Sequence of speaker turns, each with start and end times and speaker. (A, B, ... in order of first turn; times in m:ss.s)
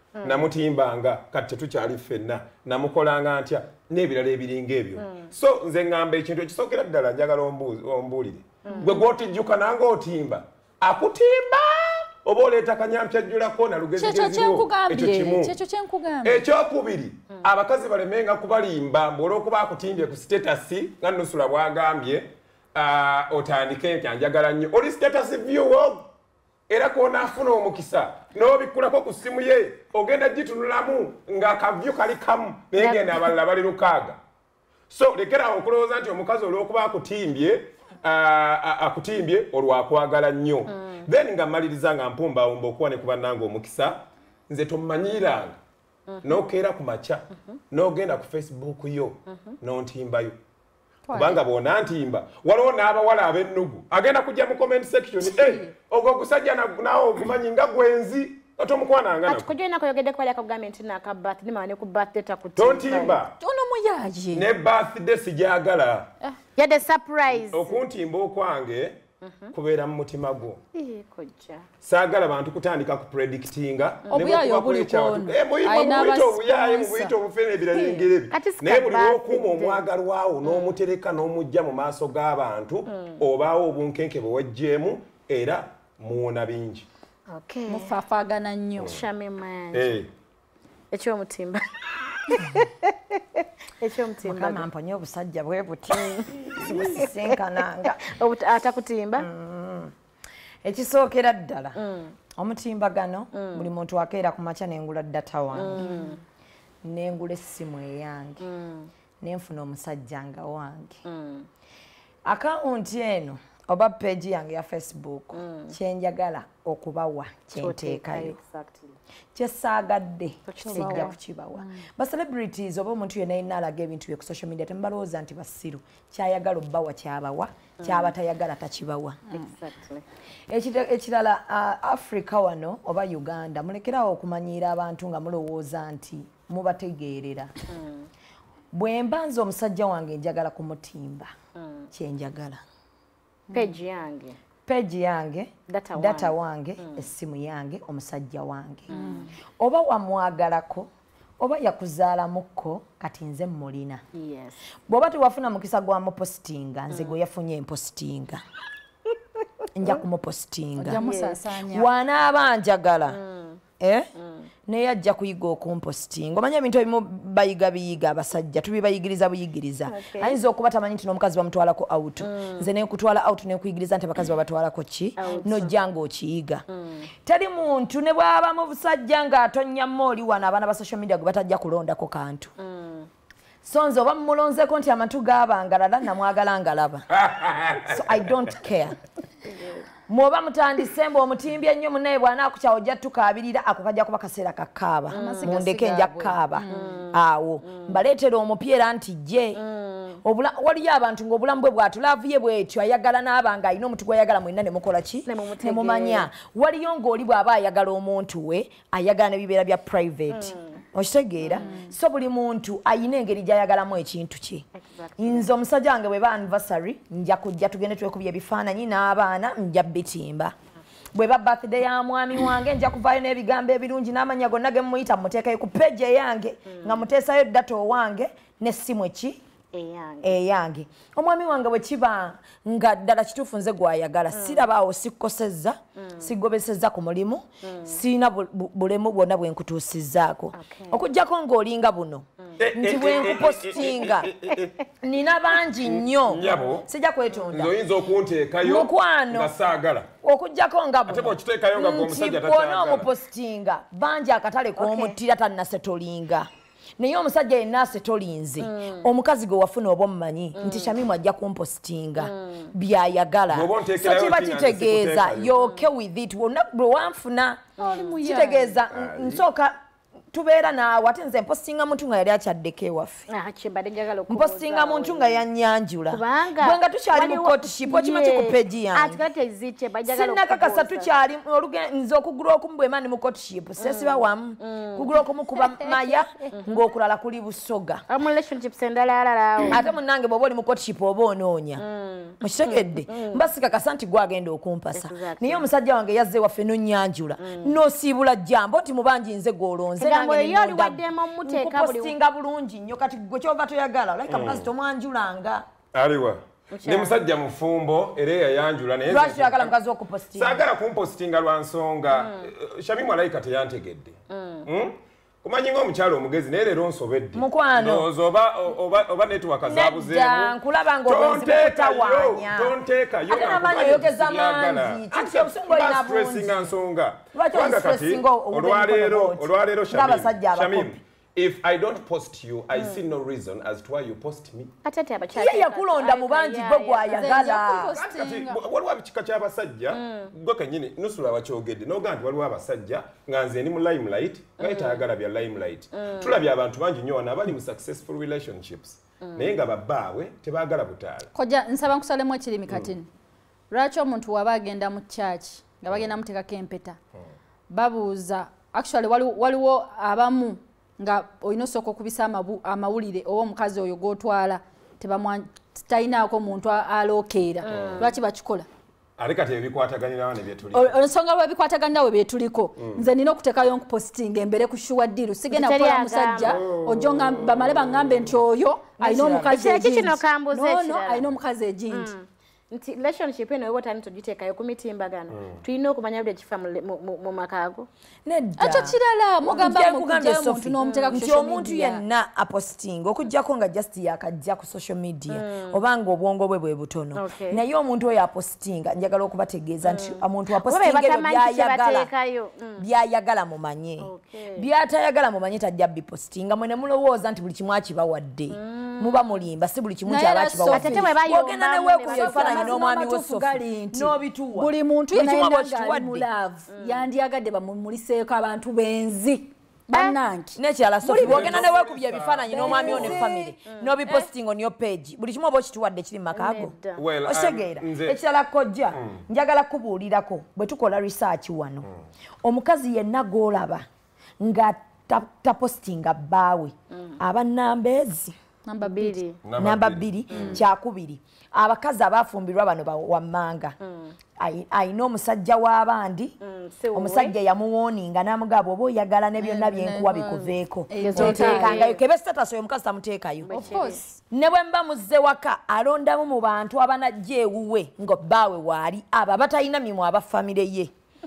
0:00.2-0:00.5 A
0:00.2-0:15.6 B
0:05.0-0:05.3 A
0:08.6-0:09.0 A
0:14.0-0:16.4 C
0:16.2-0:26.1 B
0:26.7-0:34.2 B
0:32.8-0:33.3 A
0:34.9-0:45.6 B
0:40.7-0:41.0 A
0:46.1-0:46.4 A
0:46.2-0:50.3 B
0:51.1-0:51.4 C
0:51.1-0:59.5 B
0:55.2-0:55.7 C
0:59.2-1:03.2 A
1:02.6-1:03.3 B
1:03.3-1:04.5 C
1:04.3-1:06.1 B
1:06.6-1:07.7 A
1:07.3-1:09.0 B
1:09.2-1:09.5 A
1:09.5-1:10.6 B
1:10.7-1:11.6 A
1:11.8-1:26.8 B
1:14.0-1:14.3 A
1:14.1-1:17.2 C
1:17.7-1:19.8 A
1:20.4-1:20.7 A
1:27.3-1:27.9 A
1:27.7-1:29.0 C
1:28.8-1:29.1 B
1:28.8-1:30.0 A
1:29.7-1:30.1 B
1:30.9-1:34.7 A
1:34.2-1:38.0 D
1:35.9-1:37.4 A
1:37.9-1:39.3 A
1:39.2-1:39.9 D
1:40.6-1:41.8 D
1:41.8-1:42.2 A
1:42.4-1:45.9 D
1:43.3-1:43.7 A
1:45.5-1:46.2 A
1:45.8-1:46.1 C
1:46.8-1:48.4 D
1:48.4-1:48.9 A
1:49.2-1:51.0 D
1:51.0-1:51.5 A
1:52.2-1:58.4 D
1:55.3-1:55.7 A
1:57.5-1:59.0 A
1:59.3-2:09.2 D
2:00.5-2:01.1 A
2:00.6-2:01.8 C
2:07.8-2:08.1 A
2:09.3-2:10.0 A
2:10.5-2:17.5 D
2:17.7-2:18.1 A
2:18.7-2:21.3 D
2:21.6-2:21.9 A
2:21.9-2:22.6 D
2:23.5-2:23.8 C
2:23.5-2:24.4 A
2:24.7-2:30.9 D
2:25.7-2:27.1 A
2:28.9-2:29.3 A
2:28.9-2:29.3 C
2:31.4-2:34.0 D
2:34.1-2:34.6 A
2:34.9-2:38.4 D
2:36.9-2:37.2 A
2:39.8-2:41.0 D
2:40.8-2:41.9 C
2:40.9-2:41.4 A
2:41.7-2:43.2 D
2:43.1-2:43.6 A
2:43.8-2:44.1 D
2:44.2-2:44.5 A
2:44.7-2:56.6 D
2:49.9-2:50.4 A
2:52.2-2:52.7 A
2:55.2-2:55.8 A
2:56.7-2:57.1 A
2:57.2-3:02.5 D
3:02.6-3:03.1 A
3:03.6-3:07.1 D
3:07.1-3:08.4 B
3:07.9-3:09.0 D
3:09.4-3:09.9 A
3:10.1-3:19.6 D
3:15.1-3:17.0 C
3:15.1-3:15.6 A
3:16.7-3:18.0 A
3:19.6-3:20.2 A
3:20.2-3:34.6 D
3:25.2-3:26.3 A
3:30.3-3:30.8 A
3:31.4-3:31.7 A
3:31.6-3:31.9 C
3:34.8-3:35.5 A
3:35.2-3:40.5 D
3:41.1-3:49.4 D
3:46.7-3:47.0 A
3:49.7-3:50.4 A
3:50.2-4:04.3 D
3:54.3-3:54.7 A
3:56.0-3:56.3 A
3:57.6-3:58.0 A
4:00.5-4:01.0 A
4:02.6-4:04.7 B
4:05.0-4:07.8 D
4:05.8-4:06.9 B
4:07.5-4:10.1 B
4:08.6-4:09.5 D
4:10.2-4:27.7 D
4:11.1-4:13.1 B
4:14.8-4:15.2 A
4:18.6-4:19.1 A
4:20.5-4:20.9 A
4:22.2-4:22.7 A
4:23.5-4:25.6 B
4:27.8-4:28.2 A
4:27.8-4:28.8 C
4:28.2-4:29.7 D
4:28.9-4:29.4 B
4:30.3-4:33.3 D
4:33.3-4:35.4 A
4:34.3-4:39.2 D
4:36.1-4:41.1 A
4:40.0-4:48.0 D
4:43.8-4:45.1 A
4:46.5-4:46.8 A
4:48.1-4:49.8 A
4:49.6-4:51.8 D
4:51.8-4:53.4 A
4:52.4-5:05.6 D
4:54.9-4:55.7 A
4:57.4-4:57.8 A
5:00.0-5:02.2 A
5:04.3-5:04.7 B
5:05.9-5:09.7 B
5:06.7-5:07.2 A
5:09.1-5:10.6 D
5:10.3-5:34.7 B
5:12.1-5:12.5 A
5:14.3-5:14.7 A
5:17.3-5:18.1 D
5:19.6-5:22.8 D
5:23.3-5:26.7 D
5:27.3-5:31.0 D
5:32.7-5:33.0 A
5:34.8-5:37.6 A
5:35.3-5:38.0 D
5:37.1-5:38.6 C
5:37.7-5:51.3 B
5:39.9-5:40.3 A
5:44.6-5:45.0 A
5:45.9-5:46.4 A
5:49.2-5:49.6 A
5:51.3-5:53.1 C
5:53.7-5:57.0 C
5:57.7-6:08.6 C
6:07.6-6:08.1 A
6:07.7-6:08.1 B
6:09.2-6:11.0 B
6:10.7-6:22.1 C
6:15.5-6:16.6 A
6:16.5-6:17.8 B
6:19.0-6:19.6 D
6:19.5-6:21.2 A
6:21.9-6:27.9 A
6:25.3-6:25.6 B
6:28.2-6:42.1 D
6:28.6-6:32.0 C
6:30.8-6:31.2 A
6:35.3-6:35.8 A
6:37.1-6:37.6 A
6:39.8-6:42.8 A
6:42.8-6:56.3 D
6:44.0-6:44.7 A
6:48.5-6:49.5 A
6:50.0-6:51.2 C
6:50.7-6:52.8 A
6:52.0-7:01.6 C
6:56.7-6:57.0 A
7:00.6-7:11.9 D
7:01.2-7:03.3 B
7:02.5-7:03.5 C
7:03.7-7:03.9 A
7:06.3-7:07.0 A
7:07.0-7:08.2 B
7:08.9-7:09.2 B
7:12.4-7:13.8 D
7:14.4-7:18.3 D
7:16.9-7:17.2 A
7:18.6-7:19.2 C
7:18.8-7:19.4 A
7:19.4-7:20.6 B
7:19.6-7:23.8 D
7:20.3-7:20.6 A
7:23.8-7:24.1 A
7:24.4-7:26.3 D
7:26.4-7:27.3 A
7:26.9-7:33.6 D
7:29.4-7:31.8 C
7:31.0-7:32.0 A
7:33.4-7:34.0 A
7:33.5-7:34.2 C
7:34.3-7:40.9 D